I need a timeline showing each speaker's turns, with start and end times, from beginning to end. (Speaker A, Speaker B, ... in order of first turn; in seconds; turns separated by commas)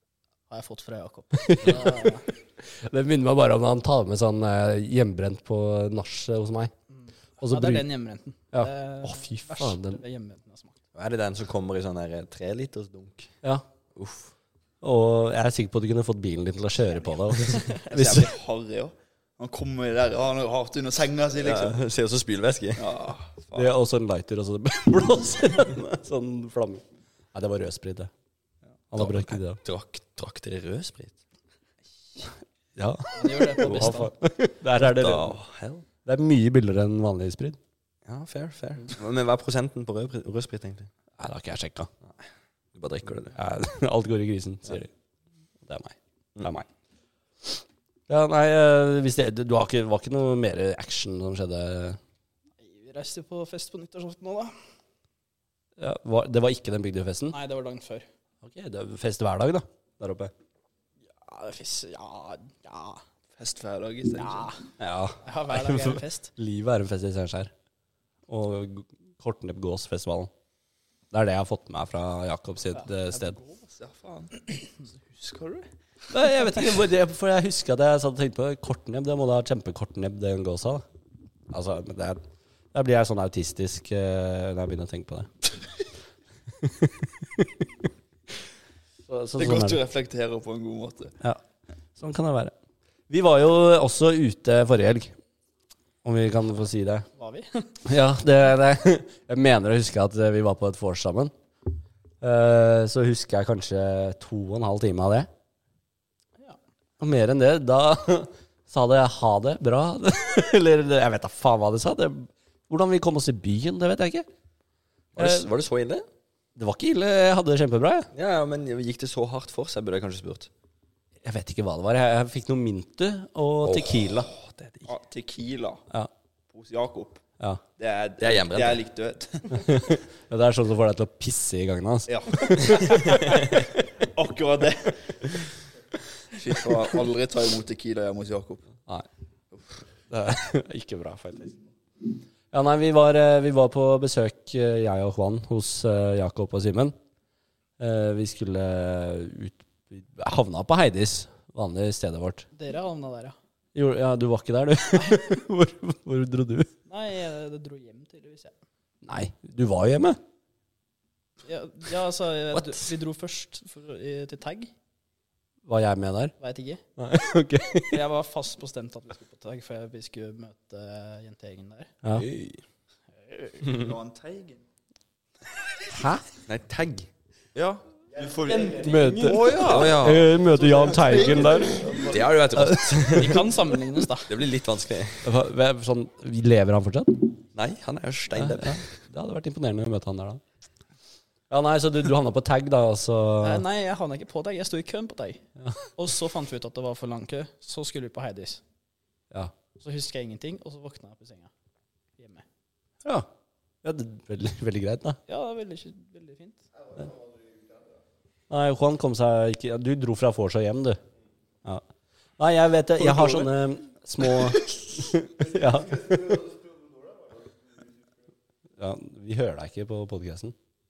Speaker A: 0.5-2.2, Speaker B: 1.4-6.7, Speaker A: 6.9-10.8, Speaker B: 7.4-7.8, Speaker B: 8.5-10.0, Speaker C: 10.9-13.3, Speaker C: 13.9-14.3, Speaker B: 14.8-18.3, Speaker A: 17.4-17.8, Speaker D: 17.8-21.8, Speaker C: 21.4-22.8, Speaker D: 22.8-23.7, Speaker B: 23.5-28.1, Speaker B: 28.9-29.6, Speaker C: 28.9-31.1, Speaker B: 32.8-35.4, Speaker A: 33.1-34.1, Speaker C: 34.8-35.8, Speaker B: 36.0-37.6, Speaker C: 38.0-40.9, Speaker B: 41.2-41.9, Speaker C: 42.7-43.4, Speaker B: 43.3-44.9, Speaker B: 45.6-46.7, Speaker B: 48.1-52.0, Speaker A: 52.6-54.5, Speaker B: 55.8-57.4, Speaker A: 57.3-58.0, Speaker B: 58.4-60.3, Speaker A: 61.1-63.0, Speaker D: 63.4-64.5, Speaker A: 64.2-64.6, Speaker B: 64.8-67.5, Speaker A: 65.2-66.3, Speaker B: 68.3-70.3, Speaker B: 71.1-73.4, Speaker D: 73.1-75.7, Speaker B: 76.1-80.8, Speaker B: 81.5-82.2, Speaker B: 82.7-85.3, Speaker B: 86.6-87.8, Speaker B: 89.1-89.8, Speaker D: 89.4-91.2, Speaker B: 92.0-92.5, Speaker B: 93.1-95.1, Speaker B: 96.0-97.0, Speaker A: 97.2-97.7, Speaker B: 97.8-101.3, Speaker B: 102.2-105.3, Speaker B: 107.0-114.3, Speaker C: 115.1-116.0, Speaker B: 115.2-115.5, Speaker B: 116.5-118.1, Speaker C: 118.1-120.5, Speaker B: 121.2-124.3, Speaker C: 123.6-124.9, Speaker D: 124.8-125.8, Speaker D: 126.5-127.2, Speaker D: 127.8-129.7, Speaker C: 128.2-128.8, Speaker B: 129.5-132.9, Speaker D: 132.1-135.4, Speaker C: 133.1-133.5, Speaker D: 136.3-138.7, Speaker B: 140.1-141.6, Speaker B: 142.5-146.9, Speaker B: 147.8-152.4, Speaker A: 152.5-153.3, Speaker B: 153.7-156.7, Speaker A: 156.9-158.5, Speaker B: 159.0-160.2, Speaker A: 161.4-164.7, Speaker B: 165.7-166.3, Speaker A: 166.4-166.8, Speaker B: 167.0-168.0, Speaker A: 167.9-171.9, Speaker C: 172.1-172.6, Speaker A: 173.2-173.6, Speaker D: 173.6-174.6, Speaker B: 175.9-176.2, Speaker C: 176.4-177.1, Speaker D: 177.5-182.2, Speaker A: 178.5-179.8, Speaker B: 178.8-182.0, Speaker C: 179.5-180.3, Speaker A: 181.0-182.0, Speaker C: 182.0-183.6, Speaker B: 182.5-183.2, Speaker A: 183.0-184.3, Speaker C: 184.2-185.3, Speaker B: 185.2-187.4, Speaker C: 187.5-188.8, Speaker B: 188.3-190.4, Speaker B: 191.5-193.6, Speaker A: 193.4-195.4, Speaker A: 195.9-198.6, Speaker A: 199.8-201.5, Speaker A: 202.2-202.4, Speaker B: 203.8-205.2, Speaker A: 205.3-206.6, Speaker B: 208.5-211.0, Speaker B: 212.4-216.5, Speaker B: 218.8-220.5